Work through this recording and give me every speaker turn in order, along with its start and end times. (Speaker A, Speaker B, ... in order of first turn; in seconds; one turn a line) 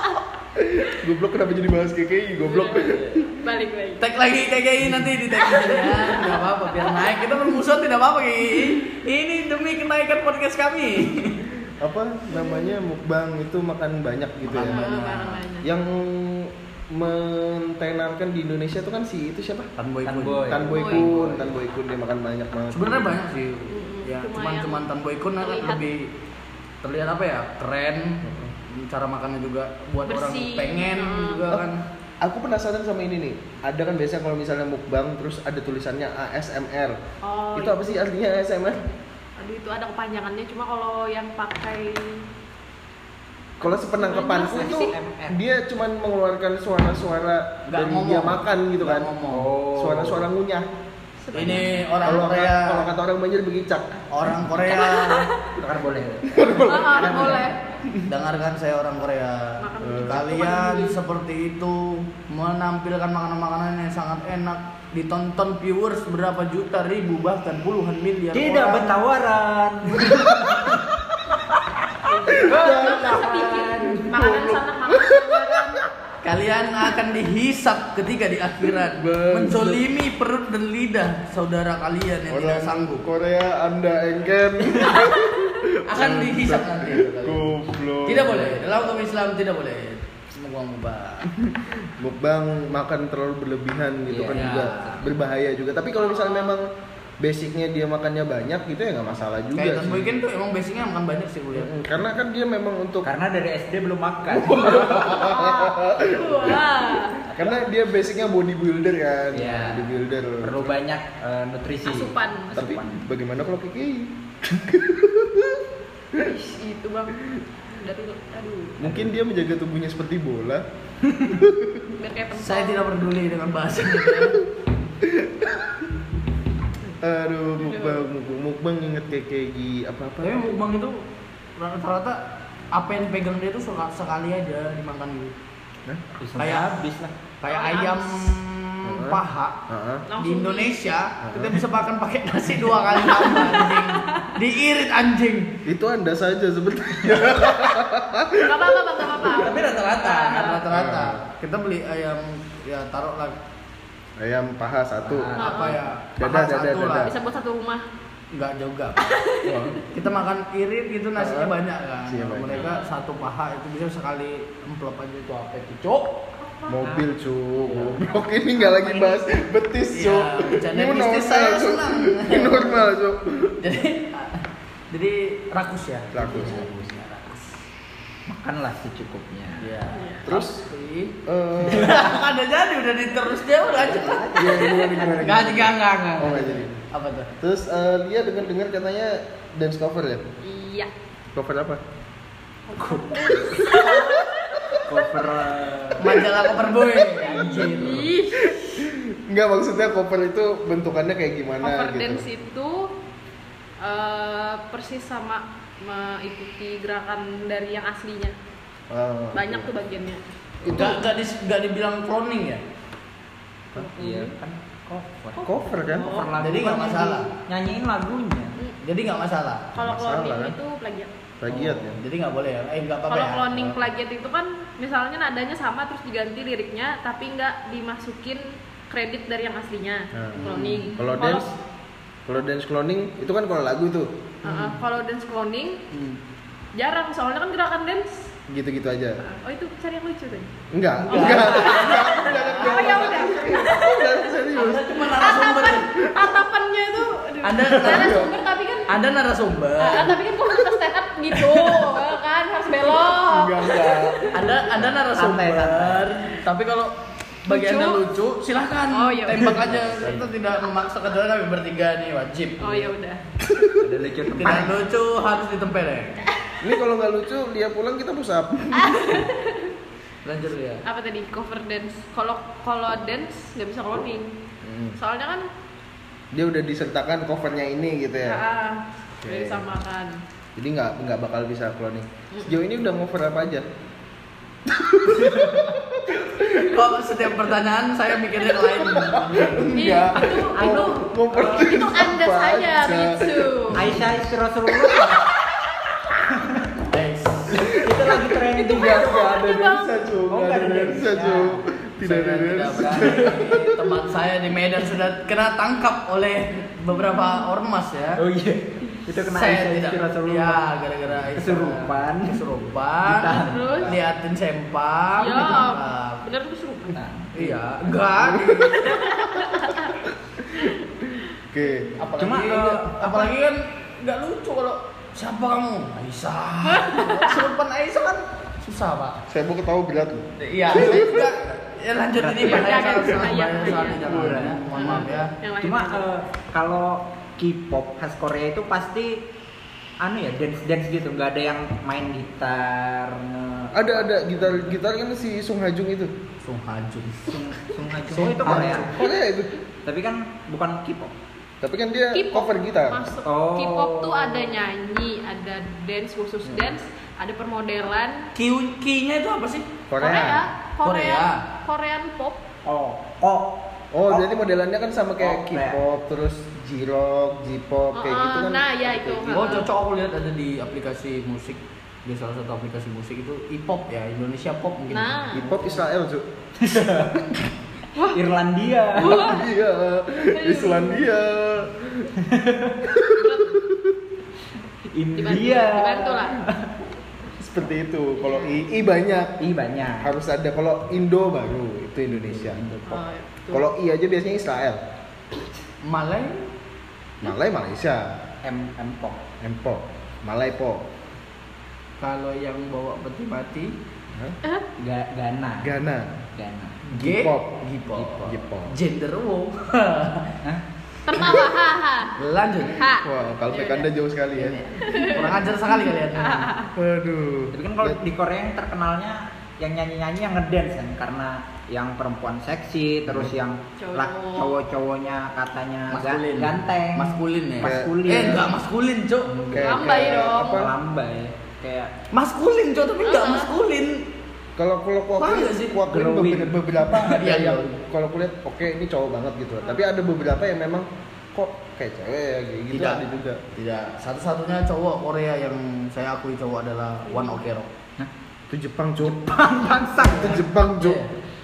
Speaker A: 0.6-3.4
Speaker B: 2.4-4.0
Speaker C: 4.0-11.4
Speaker B: 5.4-6.8
Speaker A: 11.8-14.8
Speaker B: 12.3-12.7
Speaker C: 14.4-15.4
Speaker B: 14.6-15.7
Speaker A: 15.6-19.7
Speaker C: 19.8-20.6
Speaker D: 20.0-21.5
Speaker A: 20.5-23.1
Speaker B: 20.7-21.1
Speaker C: 22.7-26.1
Speaker B: 23.7-24.9
Speaker B: 25.4-25.9
Speaker C: 26.8-31.8
Speaker A: 28.2-28.5
Speaker B: 30.1-31.6
Speaker A: 32.2-37.0
Speaker B: 37.2-37.9
Speaker A: 37.5-38.8
Speaker B: 39.4-42.2
Speaker B: 43.6-44.9
Speaker A: 43.6-49.1
Speaker D: 44.3-45.4
Speaker C: 47.7-49.5
Speaker D: 49.3-50.3
Speaker A: 49.7-50.7
Speaker B: 51.2-52.2
Speaker D: 51.3-51.7
Speaker C: 51.3-52.9
Speaker A: 52.0-54.0
Speaker C: 54.1-55.3
Speaker B: 54.7-55.5
Speaker D: 55.6-57.5
Speaker A: 56.3-58.0
Speaker B: 56.5-57.6
Speaker C: 58.0-69.0
Speaker B: 59.6-61.0
Speaker A: 59.8-60.2
Speaker D: 68.3-70.8
Speaker A: 70.1-70.8
Speaker B: 72.2-75.8
Speaker A: 72.3-75.9
Speaker D: 72.4-74.0
Speaker C: 76.2-83.1
Speaker A: 78.6-79.8
Speaker A: 82.3-88.8
Speaker C: 85.9-91.3
Speaker A: 91.3-96.7
Speaker D: 94.1-95.1
Speaker C: 94.3-95.0
Speaker B: 96.0-96.6
Speaker A: 97.2-100.2
Speaker C: 99.5-101.7
Speaker A: 101.5-103.1
Speaker D: 103.0-105.3
Speaker A: 104.3-106.7
Speaker B: 105.0-107.3
Speaker A: 107.3-110.7
Speaker D: 109.3-113.0
Speaker B: 111.8-112.5
Speaker A: 112.5-116.3
Speaker B: 116.2-118.8
Speaker A: 118.8-120.6
Speaker D: 118.8-119.1
Speaker A: 121.3-121.9
Speaker B: 122.0-122.9
Speaker C: 122.4-124.4
Speaker A: 125.0-125.9
Speaker A: 127.0-130.6
Speaker B: 127.6-128.1
Speaker C: 130.2-131.0
Speaker C: 131.6-132.2
Speaker C: 132.7-135.3
Speaker D: 136.2-137.1
Speaker C: 136.4-136.7
Speaker C: 137.4-139.6
Speaker B: 137.5-138.4
Speaker A: 138.8-140.0
Speaker B: 140.1-140.8
Speaker C: 140.2-145.6
Speaker A: 141.2-141.6
Speaker B: 143.1-144.3
Speaker A: 145.6-149.5
Speaker B: 148.4-150.6
Speaker C: 149.3-153.4
Speaker A: 150.7-151.2
Speaker A: 154.2-155.3
Speaker D: 155.0-155.8
Speaker B: 155.3-155.8
Speaker C: 155.4-157.1
Speaker A: 156.2-157.1
Speaker B: 157.0-157.8
Speaker C: 158.3-159.1
Speaker B: 159.0-159.8
Speaker A: 159.4-159.8
Speaker C: 159.9-166.2
Speaker A: 161.2-162.7
Speaker B: 162.5-162.9
Speaker B: 166.4-166.8
Speaker A: 166.7-173.6
Speaker D: 166.8-167.1
Speaker C: 167.7-168.0
Speaker B: 168.7-169.2
Speaker C: 169.9-172.9
Speaker C: 173.6-177.6
Speaker A: 176.1-177.0
Speaker D: 178.3-179.7
Speaker C: 179.6-187.3
Speaker B: 179.9-180.2
Speaker A: 180.2-180.6
Speaker A: 181.2-182.2
Speaker D: 181.8-182.0
Speaker D: 183.6-185.5
Speaker A: 184.3-186.7
Speaker A: 187.4-190.2
Speaker B: 190.4-190.9
Speaker A: 191.3-191.8
Speaker B: 192.7-195.1
Speaker D: 192.8-193.9
Speaker A: 193.5-194.8
Speaker D: 194.8-196.3
Speaker C: 196.0-198.1
Speaker A: 197.1-197.7
Speaker B: 197.2-198.8
Speaker A: 198.4-202.2
Speaker B: 201.6-202.9
Speaker B: 203.8-208.3
Speaker A: 208.9-209.7
Speaker B: 209.3-211.0
Speaker A: 210.6-211.0
Speaker C: 210.7-212.6
Speaker B: 213.7-214.3
Speaker D: 213.9-218.5
Speaker A: 215.4-216.3
Speaker B: 215.9-216.2
Speaker C: 216.4-217.3
Speaker C: 218.8-219.7
Speaker B: 219.7-221.1
Speaker A: 219.8-220.6
Speaker A: 221.4-222.0
Speaker C: 221.5-223.8
Speaker B: 223.1-231.5
Speaker A: 230.1-231.5
Speaker C: 230.4-230.9
Speaker A: 232.2-234.1
Speaker C: 234.4-234.8
Speaker B: 234.4-235.8
Speaker C: 235.9-236.2
Speaker B: 236.7-238.3
Speaker A: 238.5-239.2
Speaker B: 239.2-240.5
Speaker A: 240.7-245.0
Speaker C: 241.1-243.1
Speaker B: 241.1-244.4
Speaker C: 244.5-245.8
Speaker B: 245.0-248.9
Speaker A: 246.0-246.4
Speaker C: 247.4-248.3
Speaker A: 247.8-248.3
Speaker C: 248.9-250.2
Speaker B: 249.8-254.5
Speaker C: 251.3-252.0
Speaker A: 253.1-254.3
Speaker C: 254.3-262.9
Speaker D: 254.7-256.1
Speaker B: 257.5-258.0
Speaker B: 258.9-259.7
Speaker A: 259.8-260.2
Speaker B: 262.6-263.2
Speaker D: 263.7-264.8
Speaker C: 264.3-266.2
Speaker A: 266.6-269.1
Speaker B: 268.7-269.7
Speaker C: 270.2-270.8
Speaker B: 270.8-274.3
Speaker A: 274.6-275.0
Speaker B: 275.0-275.5
Speaker A: 276.3-278.4
Speaker B: 278.2-280.2
Speaker A: 279.2-279.6
Speaker A: 280.6-283.6
Speaker A: 284.6-286.8
Speaker D: 285.2-285.6
Speaker C: 286.6-289.8
Speaker A: 288.8-294.1
Speaker B: 289.8-293.9
Speaker D: 290.5-291.7
Speaker D: 293.7-295.3
Speaker A: 294.8-295.1
Speaker D: 296.2-296.8
Speaker C: 296.9-297.7
Speaker D: 297.5-299.4
Speaker A: 297.6-303.9
Speaker B: 298.5-300.0
Speaker D: 300.3-301.6
Speaker C: 302.0-308.2
Speaker D: 302.7-303.7
Speaker B: 307.1-307.4
Speaker D: 308.2-310.7
Speaker C: 309.3-316.2
Speaker D: 311.3-312.4
Speaker D: 313.0-313.9
Speaker B: 313.3-313.9
Speaker B: 315.2-317.0
Speaker D: 316.9-317.6
Speaker C: 317.3-319.3
Speaker A: 318.2-318.9
Speaker B: 318.9-319.9
Speaker A: 320.1-322.0
Speaker C: 321.9-329.2
Speaker D: 322.2-323.2
Speaker B: 326.6-327.4
Speaker A: 329.3-331.4
Speaker C: 330.4-335.3
Speaker D: 332.2-332.9
Speaker B: 332.4-334.2
Speaker D: 334.0-335.0
Speaker A: 334.0-335.1
Speaker B: 334.7-336.1
Speaker D: 335.6-339.2
Speaker D: 340.0-344.8
Speaker A: 343.7-346.1
Speaker C: 346.4-347.4
Speaker D: 347.3-349.2
Speaker C: 348.0-349.0
Speaker A: 348.4-349.5
Speaker D: 349.8-351.1
Speaker A: 351.6-353.1
Speaker B: 352.1-358.3
Speaker D: 353.2-354.6
Speaker C: 358.3-359.7
Speaker A: 359.9-360.4
Speaker B: 360.0-362.4
Speaker D: 360.1-360.4
Speaker C: 360.8-361.4
Speaker D: 362.6-364.3
Speaker A: 363.9-369.6
Speaker D: 365.2-365.8
Speaker B: 367.9-369.7
Speaker C: 369.3-375.8
Speaker B: 374.9-375.4
Speaker A: 375.3-376.2
Speaker D: 376.6-377.3
Speaker B: 377.9-378.2
Speaker D: 378.1-379.4
Speaker B: 378.9-379.4
Speaker A: 379.0-382.1
Speaker B: 380.3-381.1
Speaker D: 382.2-382.8
Speaker A: 382.8-383.9
Speaker B: 383.2-383.6
Speaker D: 384.9-386.7
Speaker B: 385.1-386.4
Speaker A: 387.4-389.4
Speaker B: 388.2-388.6
Speaker D: 389.4-390.1
Speaker A: 390.0-392.6
Speaker D: 392.1-393.0
Speaker B: 392.9-393.6
Speaker A: 393.5-394.8
Speaker C: 395.8-396.5
Speaker A: 397.2-398.2
Speaker D: 398.4-399.2
Speaker A: 399.4-400.9
Speaker C: 402.0-403.7
Speaker A: 404.1-404.4
Speaker D: 404.8-405.7
Speaker A: 405.6-406.2
Speaker D: 406.3-406.8
Speaker A: 406.9-407.5
Speaker C: 406.9-410.4
Speaker D: 407.9-408.3
Speaker A: 408.2-408.7
Speaker B: 411.0-412.1
Speaker C: 412.2-412.8
Speaker B: 412.7-413.9
Speaker A: 413.0-414.6
Speaker C: 414.4-416.5
Speaker B: 414.8-415.5
Speaker B: 416.1-416.7
Speaker A: 416.8-418.0
Speaker D: 417.5-428.5
Speaker A: 423.1-423.4
Speaker B: 423.8-424.6
Speaker C: 425.9-429.5
Speaker A: 427.6-428.4
Speaker D: 429.3-431.9
Speaker A: 429.5-430.7
Speaker B: 429.6-430.7
Speaker C: 432.1-434.1
Speaker B: 433.0-433.5
Speaker A: 434.6-443.4
Speaker C: 435.2-435.8
Speaker D: 435.9-437.2
Speaker C: 436.9-437.8
Speaker C: 442.7-443.0
Speaker C: 443.5-447.7
Speaker B: 447.1-447.4
Speaker A: 448.5-449.2
Speaker D: 449.0-450.4
Speaker A: 450.0-451.0
Speaker C: 450.0-451.1